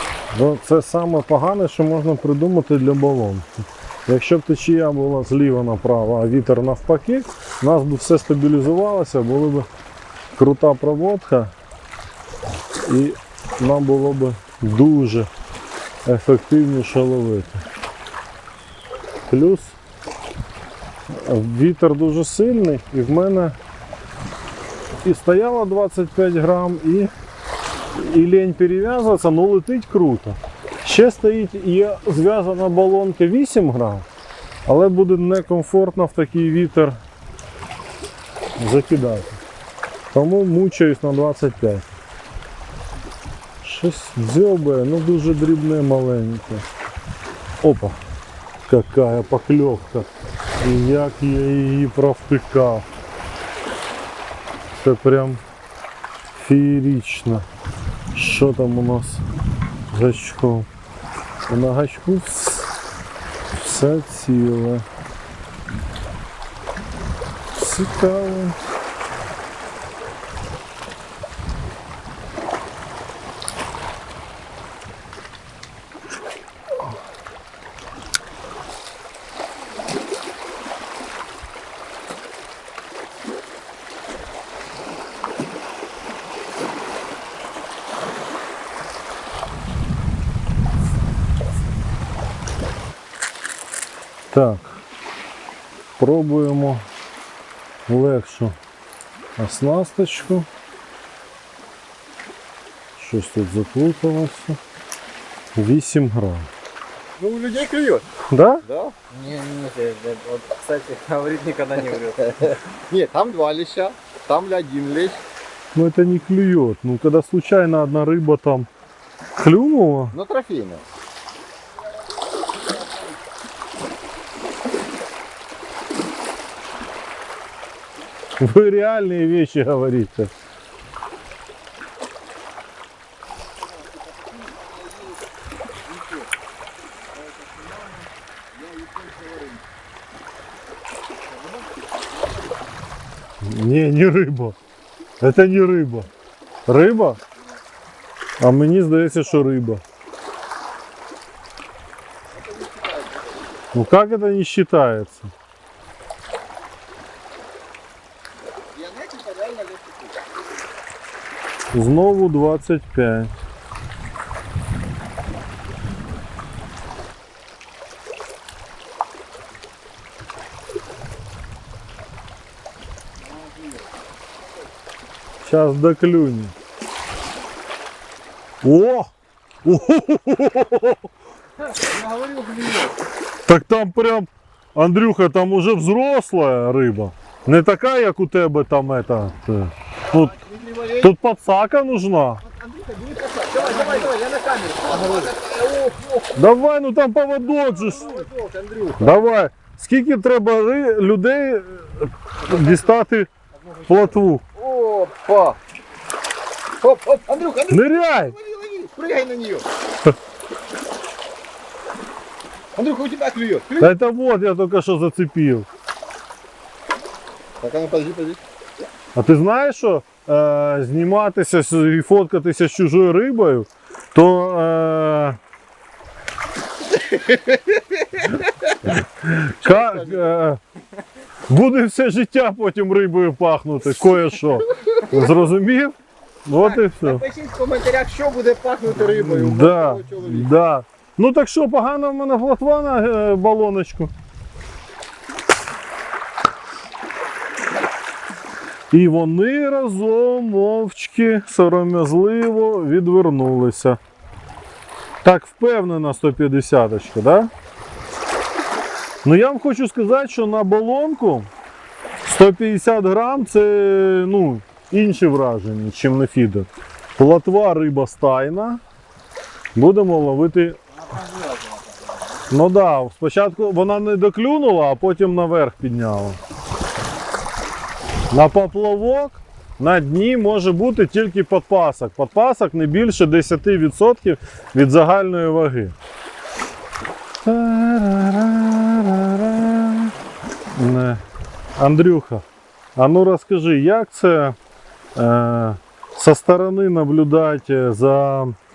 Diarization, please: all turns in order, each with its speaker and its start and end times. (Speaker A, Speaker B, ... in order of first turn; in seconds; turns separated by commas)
Speaker A: 0.3-9.7, Speaker A: 10.3-11.5, Speaker A: 12.8-15.3, Speaker A: 16.1-17.6, Speaker A: 19.3-19.8, Speaker A: 21.1-23.6, Speaker A: 25.0-27.1, Speaker A: 27.9-34.0, Speaker A: 34.6-37.0, Speaker A: 38.6-39.4, Speaker A: 40.1-41.9, Speaker A: 43.6-46.6, Speaker A: 47.6-48.0, Speaker A: 48.6-52.9, Speaker A: 54.7-55.4, Speaker A: 56.3-57.5, Speaker A: 58.1-59.2, Speaker A: 59.9-60.7, Speaker A: 61.5-62.7, Speaker A: 63.5-64.8, Speaker A: 67.5-68.6, Speaker A: 94.3-94.8, Speaker A: 96.0-96.8, Speaker A: 97.9-98.6, Speaker A: 99.4-100.5, Speaker A: 103.0-104.6, Speaker A: 105.5-106.5, Speaker B: 107.2-108.1, Speaker A: 108.3-108.6, Speaker B: 108.6-108.9, Speaker C: 109.1-112.6, Speaker B: 112.3-115.2, Speaker A: 115.7-118.7, Speaker A: 119.4-120.1, Speaker B: 120.1-120.8, Speaker A: 128.4-130.3, Speaker B: 133.6-135.2, Speaker B: 135.9-136.3, Speaker B: 137.1-139.6, Speaker B: 141.3-141.7, Speaker A: 143.4-144.6, Speaker A: 145.2-146.1, Speaker A: 146.7-147.2, Speaker A: 148.4-149.8, Speaker B: 152.3-153.5, Speaker A: 153.7-155.3, Speaker B: 158.7-160.2, Speaker A: 161.7-163.3, Speaker C: 173.4-173.8, Speaker A: 175.4-176.5, Speaker A: 178.6-179.1, Speaker A: 179.6-181.0, Speaker C: 181.9-182.8, Speaker B: 182.1-182.8, Speaker A: 183.4-190.3, Speaker B: 190.1-191.1, Speaker A: 191.0-192.4, Speaker B: 192.4-196.4, Speaker C: 193.8-194.1, Speaker A: 196.3-198.2, Speaker B: 197.7-199.2, Speaker A: 199.0-203.3, Speaker B: 203.7-203.9, Speaker A: 203.8-204.4, Speaker B: 204.5-205.6, Speaker B: 206.8-209.7, Speaker A: 207.7-208.3, Speaker B: 212.7-213.9, Speaker A: 213.8-215.7, Speaker B: 217.6-218.4, Speaker A: 219.1-225.4, Speaker B: 226.9-228.7, Speaker A: 228.8-230.6, Speaker B: 229.6-230.3, Speaker A: 231.5-237.2, Speaker B: 236.6-240.5, Speaker A: 238.9-244.1, Speaker A: 248.9-254.0, Speaker A: 255.2-257.5, Speaker A: 259.2-261.5, Speaker A: 262.2-268.8, Speaker A: 269.7-270.8, Speaker C: 270.9-272.4, Speaker A: 272.5-276.4, Speaker A: 278.3-285.9, Speaker A: 287.4-290.1, Speaker A: 290.7-291.2, Speaker A: 291.8-292.4, Speaker A: 292.9-294.6, Speaker A: 295.1-298.6